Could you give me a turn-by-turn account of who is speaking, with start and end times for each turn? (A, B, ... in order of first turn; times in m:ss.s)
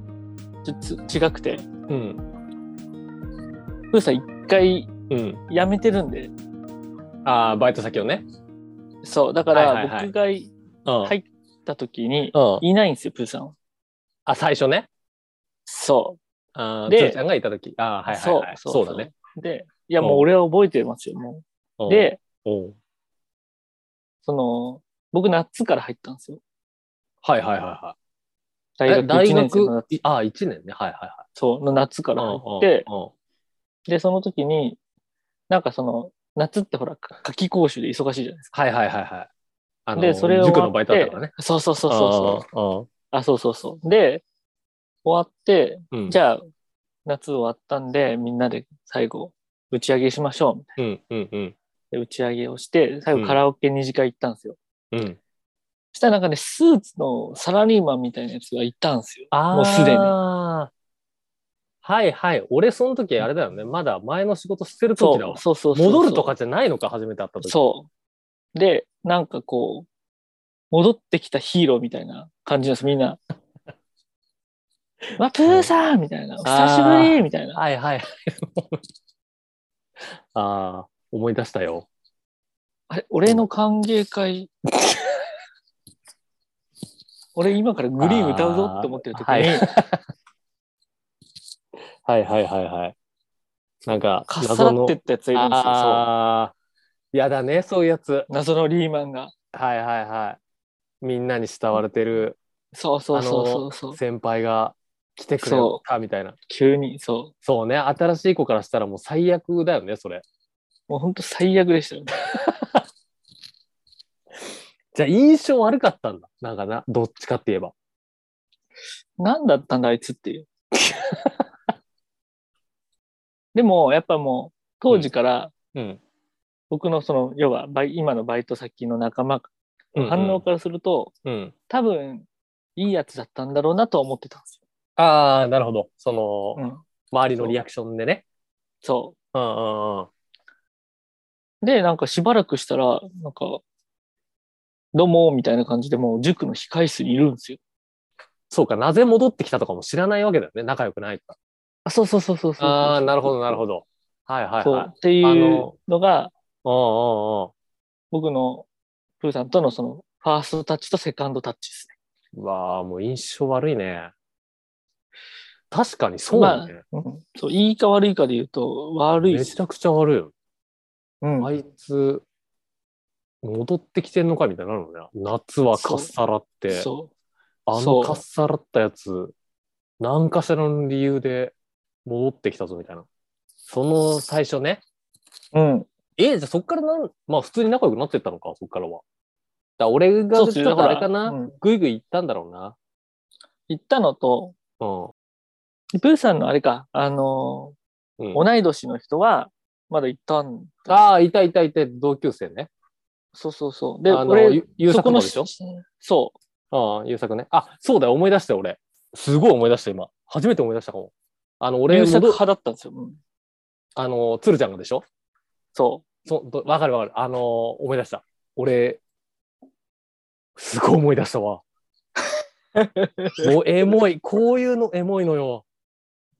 0:00.6-0:01.6 A
0:01.9-0:02.2 B
0:03.9-0:04.9 A
0:05.1-0:05.4 B
0:05.5-0:06.3 A
0:07.2-0:08.2 B
0:09.0-0:10.5 A
0:09.5-0:10.1 B
0:10.8-0:11.1 B
0:11.0-0:13.5 A
0:12.3-0:12.6 B
0:14.2-0:14.9 B
0:15.6-0:16.2 A
0:16.5-0:19.1 B
0:16.9-0:17.2 A
0:18.1-0:22.2 A
0:20.0-0:20.3 B
0:21.8-0:22.8 B
0:24.2-0:26.4 A
0:27.2-0:28.0 B
0:28.8-0:29.9 A
0:28.9-0:31.2 B
0:31.3-0:32.9 A
0:32.2-0:33.1 B
0:33.9-0:34.8 A
0:35.5-0:38.5 A
0:38.5-0:39.3 B
0:39.9-0:41.3 B
0:40.0-0:42.4 A
0:41.9-0:42.9 B
0:43.1-0:44.2 A
0:45.0-0:46.4 A
0:45.9-0:46.2 B
0:47.0-0:50.7 A
0:50.8-0:51.6 B
0:51.9-0:54.6 A
0:53.1-0:53.4 B
0:54.9-0:55.2 B
0:55.9-1:00.2 A
0:59.3-1:00.7 B
1:01.8-1:07.6 B
1:05.0-1:06.3 A
1:07.4-1:07.9 A
1:08.5-1:09.9 A
1:10.7-1:13.2 A
1:15.2-1:17.6 A
1:16.4-1:18.8 B
1:20.3-1:21.9 B
1:22.9-1:24.5 A
1:27.3-1:29.7 A
1:28.0-1:30.0 B
1:32.0-1:32.9 B
1:33.8-1:36.5 B
1:34.3-1:36.1 A
1:37.1-1:38.3 B
1:38.3-1:39.3 A
1:39.5-1:40.4 B
1:41.0-1:42.4 B
1:42.7-1:44.0 A
1:43.1-1:46.4 B
1:45.4-1:45.8 A
1:46.5-1:47.3 A
1:47.4-1:50.2 B
1:50.9-1:52.2 A
1:54.9-1:57.7 B
1:59.2-2:00.5 A
2:03.5-2:05.5 A
2:05.7-2:06.0 B
2:06.7-2:11.1 A
2:09.9-2:10.4 B
2:11.2-2:11.5 B
2:11.7-2:14.6 A
2:15.0-2:18.2 B
2:16.6-2:16.8 A
2:18.8-2:19.2 A
2:19.3-2:20.1 B
2:21.6-2:23.6 A
2:24.9-2:27.6 A
2:28.5-2:31.3 B
2:31.8-2:33.6 A
2:32.6-2:35.7 B
2:34.6-2:36.3 A
2:36.6-2:37.5 B
2:38.1-2:38.7 A
2:39.2-2:42.0 A
2:42.3-2:44.1 B
2:45.7-2:46.8 B
2:46.3-2:49.6 A
2:49.2-2:50.3 B
2:51.2-2:51.5 A
2:51.4-2:52.2 B
2:53.4-2:56.9 B
2:55.8-2:56.1 A
2:56.7-2:57.1 A
2:57.7-2:59.3 B
2:57.7-2:58.2 A
3:00.0-3:03.0 B
3:03.7-3:04.8 B
3:05.5-3:05.9 A
3:06.2-3:09.0 B
3:09.8-3:12.8 B
3:10.3-3:11.5 A
3:13.7-3:14.5 A
3:14.8-3:15.1 B
3:15.9-3:17.8 A
3:18.3-3:21.1 A
3:20.9-3:22.7 B
3:23.3-3:26.4 A
3:24.1-3:25.5 B
3:26.7-3:32.4 B
3:31.9-3:33.2 A
3:34.0-3:35.0 B
3:35.7-3:36.0 A
3:36.2-3:39.0 B
3:40.6-3:41.6 B
3:42.8-3:43.4 A
3:43.4-3:45.6 B